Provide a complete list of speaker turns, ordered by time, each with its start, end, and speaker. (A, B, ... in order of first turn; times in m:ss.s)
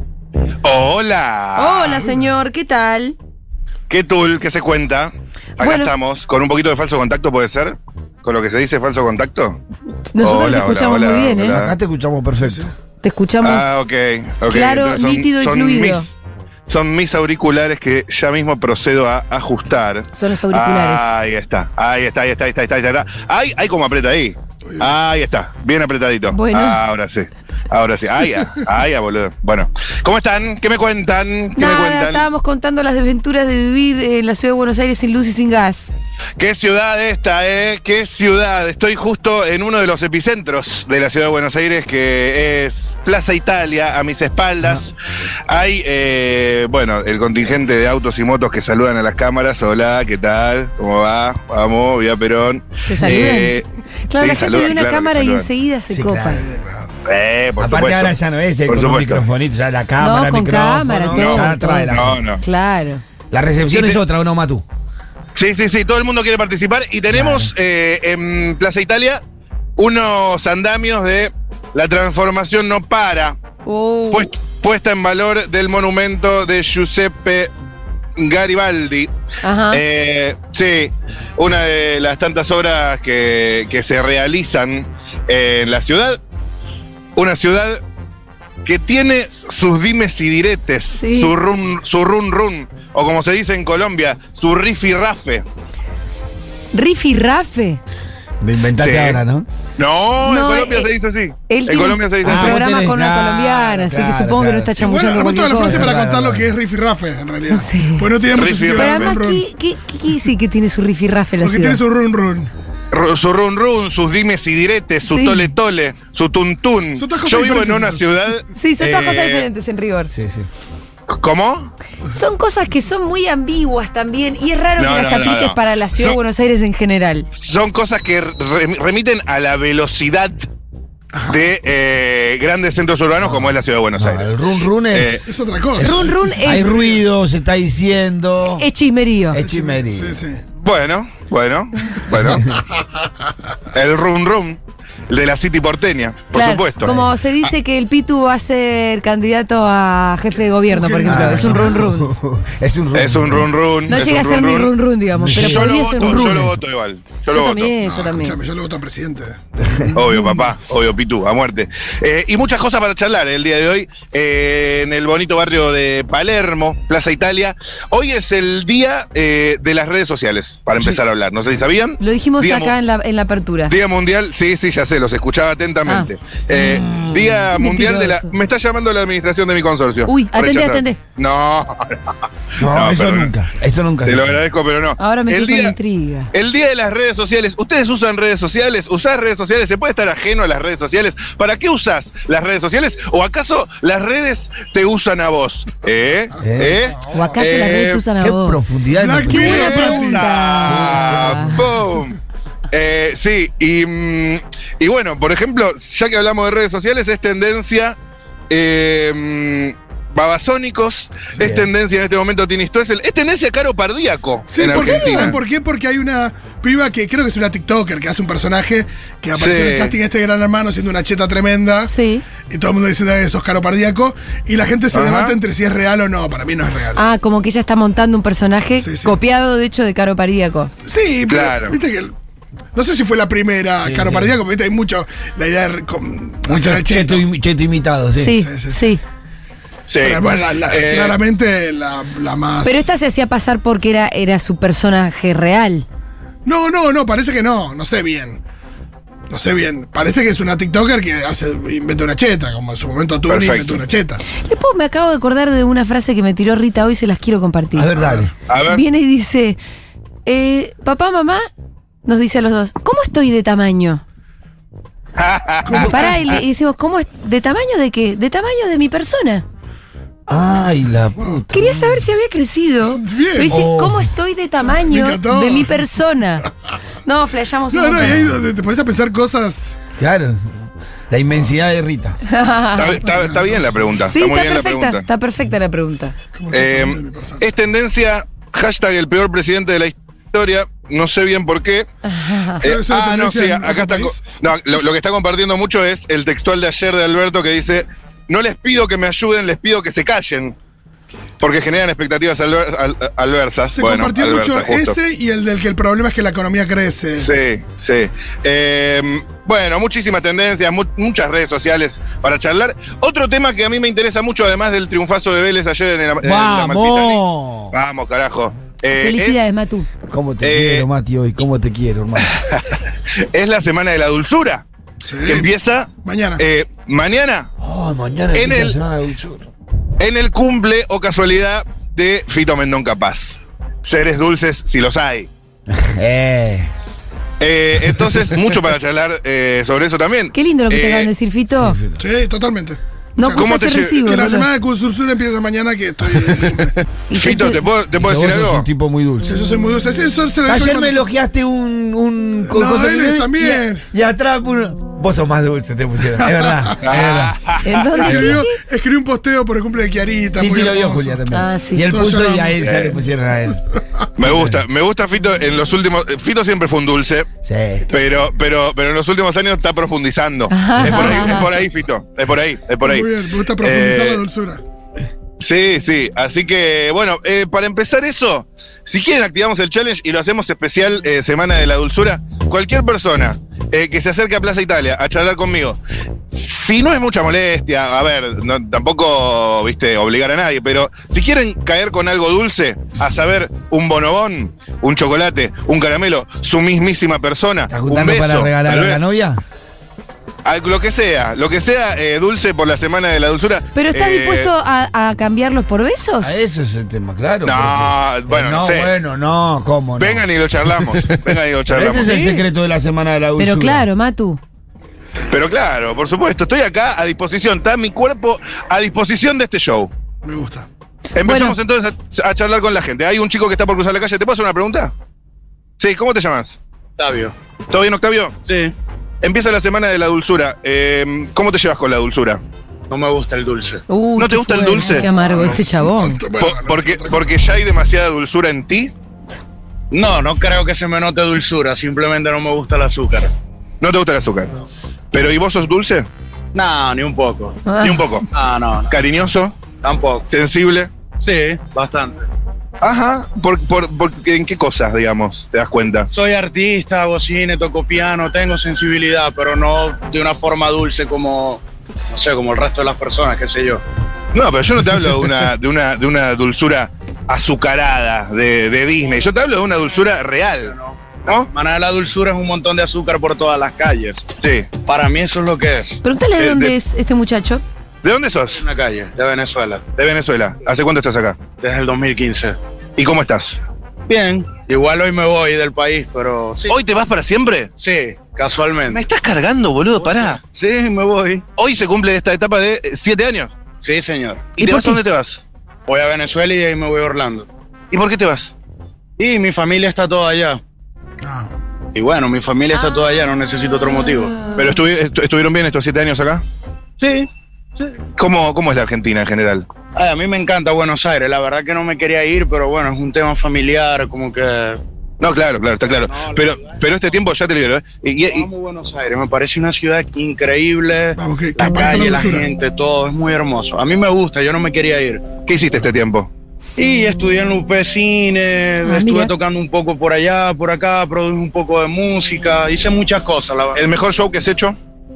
0:00.6-0:02.0 A
0:01.6-0:03.2 B
0:03.9-0:09.6 A
0:05.6-0:05.9 B
0:10.1-0:11.6 B
0:10.2-0:11.8 A
0:11.5-0:12.7 C
0:12.4-0:12.7 D
0:13.0-0:13.8 B
0:13.4-0:16.2 A
0:14.5-0:16.1 B
0:16.7-0:32.3 A
0:20.1-0:21.3 B
0:24.7-0:24.9 D
0:26.3-0:26.8 B
0:31.6-0:35.9 B
0:36.4-0:44.9 A
0:45.5-0:55.5 A
0:52.9-0:53.6 B
0:54.1-0:56.5 B
0:55.9-0:56.5 C
0:56.3-0:56.9 D
0:57.0-0:59.2 A
0:57.6-1:02.2 C
1:00.0-1:03.0 B
1:01.1-1:02.4 A
1:03.3-1:04.6 C
1:03.7-1:04.0 A
1:05.4-1:09.2 A
1:07.1-1:07.5 C
1:09.8-1:13.4 A
1:13.6-1:14.3 B
1:14.1-1:17.5 A
1:18.2-1:19.1 A
1:19.4-1:19.8 B
1:19.7-1:26.2 A
1:27.2-1:27.8 A
1:28.6-1:35.4 A
1:31.0-1:31.3 B
1:36.7-1:37.8 B
1:38.4-1:39.5 C
1:38.8-1:39.2 A
1:39.8-1:42.6 A
1:40.2-1:40.9 B
1:41.5-1:45.9 B
1:42.2-1:44.9 C
1:44.8-1:49.4 D
1:45.6-1:46.5 C
1:47.5-1:48.1 B
1:48.3-1:49.2 A
1:48.8-1:51.8 B
1:51.4-1:52.5 D
1:52.9-1:59.5 A
1:55.0-1:55.5 B
1:57.0-1:58.1 D
1:58.5-2:00.1 B
2:00.1-2:00.5 C
2:01.1-2:01.7 A
2:02.1-2:07.3 B
2:04.8-2:06.2 A
2:07.3-2:10.5 A
2:11.1-2:11.5 D
2:11.3-2:14.3 A
2:13.2-2:18.7 C
2:14.9-2:15.2 A
2:15.2-2:17.0 D
2:15.8-2:16.8 B
2:18.6-2:19.4 B
2:19.3-2:20.2 C
2:19.4-2:20.4 D
2:20.6-2:22.5 A
2:23.7-2:27.1 A
2:26.3-2:32.1 B
2:30.7-2:31.9 D
2:31.0-2:33.9 C
2:32.9-2:34.7 A
2:33.9-2:36.4 B
2:35.2-2:36.6 C
2:35.3-2:37.8 A
2:37.3-2:38.4 B
2:37.8-2:40.5 D
2:39.6-2:40.0 C
2:39.9-2:52.8 A
2:52.0-2:53.8 B
2:53.7-3:02.0 A
2:56.5-2:57.5 C
2:57.5-2:58.3 B
3:00.1-3:01.0 B
3:02.6-3:04.4 C
3:02.7-3:03.3 A
3:04.0-3:05.8 A
3:05.0-3:06.3 B
3:06.3-3:18.1 A
3:16.4-3:16.8 C
3:16.7-3:17.3 D
3:17.1-3:18.6 B
3:18.2-3:21.7 C
3:18.9-3:20.3 D
3:19.3-3:21.5 B
3:19.4-3:22.2 A
3:22.7-3:28.0 A
3:28.5-3:35.4 A
3:31.4-3:31.7 C
3:34.5-3:41.9 D
3:34.7-3:35.3 B
3:39.4-3:40.0 A
3:41.8-3:42.2 B
3:42.5-3:47.0 D
3:44.9-3:45.4 A
3:47.0-3:50.7 B
3:48.8-3:49.2 D
3:50.8-3:52.1 D
3:51.3-3:51.8 A
3:52.8-3:57.3 D
3:53.8-3:54.4 C
3:56.5-3:58.4 C
3:58.2-3:59.0 B
3:58.4-3:58.9 D
3:59.9-4:01.2 A
4:00.0-4:02.9 D
4:02.6-4:05.9 B
4:06.4-4:08.4 D
4:09.3-4:14.2 D
4:13.3-4:13.8 A
4:14.4-4:17.9 B
4:17.7-4:18.3 C
4:18.0-4:18.3 D
4:18.5-4:18.8 A
4:18.6-4:19.6 B
4:20.3-4:21.5 B
4:22.1-4:24.0 B
4:25.2-4:26.4 A
4:25.6-4:26.2 D
4:25.8-4:29.4 B
4:30.3-4:32.0 C
4:31.2-4:31.4 D
4:31.5-4:36.5 B
4:32.9-4:33.6 D
4:33.5-4:34.1 C
4:34.7-4:35.8 D
4:37.0-4:38.2 B
4:37.7-4:39.8 D
4:38.0-4:38.4 C
4:40.0-4:42.2 C
4:42.3-4:43.0 B
4:42.7-4:45.0 A
4:43.0-4:44.0 D
4:44.1-4:46.2 B
4:46.4-4:47.5 D
4:46.5-4:51.9 A
4:52.0-4:52.6 B
4:52.6-5:00.6 A
4:52.6-4:54.2 D
5:01.4-5:05.0 A
5:03.7-5:07.3 D
5:07.1-5:17.2 A
5:16.2-5:17.7 C
5:17.7-5:19.5 A
5:19.0-5:19.9 B
5:20.1-5:22.3 C
5:20.4-5:20.9 A
5:22.2-5:24.6 A
5:25.0-5:26.4 D
5:25.3-5:27.5 A
5:27.6-5:29.5 C
5:28.3-5:28.8 A
5:30.0-5:35.3 A
5:35.7-5:36.7 C
5:37.4-5:41.1 A
5:40.4-5:41.8 B
5:41.5-5:42.0 C
5:42.0-5:46.8 D
5:43.2-5:44.5 B
5:43.4-5:44.1 A
5:47.1-5:47.6 B
5:47.1-5:48.7 A
5:48.0-5:49.5 C
5:49.2-5:51.1 D
5:50.4-5:57.4 C
5:52.4-5:53.8 D
5:56.2-5:56.8 D
5:56.8-5:58.2 A
5:57.6-5:58.6 B
5:58.0-6:01.2 D
5:58.1-5:58.4 C
6:00.4-6:03.6 C
6:01.3-6:01.9 B
6:01.8-6:03.0 D
6:02.6-6:02.9 A
6:04.2-6:07.3 A
6:04.2-6:04.6 C
6:07.4-6:07.9 C
6:07.9-6:14.2 A
6:10.5-6:11.6 B
6:12.8-6:14.6 D
6:15.4-6:39.1 A
6:37.7-6:39.4 C
6:40.4-6:44.5 A
6:43.8-6:46.4 B
6:46.2-6:50.2 C
6:47.4-6:48.9 A
6:50.0-6:52.2 A
6:50.8-6:53.9 C
6:52.0-6:52.4 B
6:53.4-6:54.4 B
6:55.3-6:59.9 A
7:00.2-7:00.7 D
7:01.2-7:04.9 A
7:01.2-7:01.6 B
7:05.8-7:06.6 A
7:07.0-7:07.4 E
7:07.7-7:08.4 A
7:08.4-7:08.8 E
7:09.2-7:12.4 A
7:12.9-7:13.8 E
7:13.9-7:16.2 B
7:14.2-7:15.1 A
7:14.8-7:17.3 D
7:16.4-7:18.9 A
7:19.9-7:23.3 E
7:23.8-7:26.1 A
7:26.5-7:27.6 E
7:27.7-7:28.0 B
7:27.8-7:28.3 A
7:28.3-7:29.0 E
7:28.9-7:29.6 A
7:29.8-7:30.3 E
7:30.3-7:30.9 A
7:31.2-7:32.2 E
7:32.8-7:36.1 A
7:36.1-7:43.8 E
7:44.3-7:50.7 A
7:50.6-7:54.3 E
7:54.4-7:54.7 A
7:54.8-7:56.0 E
7:56.0-7:57.6 B
7:56.4-7:56.8 A
7:58.0-7:58.6 A
7:58.5-7:59.8 E
8:00.0-8:01.4 A
8:01.6-8:02.6 E
8:03.0-8:03.6 A
8:04.1-8:06.8 E
8:06.7-8:07.7 A
8:07.8-8:09.0 E
8:08.9-8:10.4 A
8:10.0-8:11.4 E
8:11.6-8:13.5 A
8:13.8-8:14.6 E
8:14.6-8:15.1 B
8:14.6-8:15.4 A
8:15.9-8:17.5 E
8:17.9-8:18.5 A
8:19.2-8:20.6 E
8:21.2-8:21.5 D
8:21.9-8:24.5 E
8:24.6-8:26.4 A
8:27.0-8:28.0 E
8:28.2-8:29.7 A
8:30.0-8:34.8 E
8:35.2-8:38.5 A
8:35.8-8:37.2 E
8:38.2-8:45.4 E
8:41.2-8:42.5 D
8:45.4-8:46.3 A
8:46.8-8:53.9 E
8:48.8-8:49.3 B
8:53.8-8:54.8 A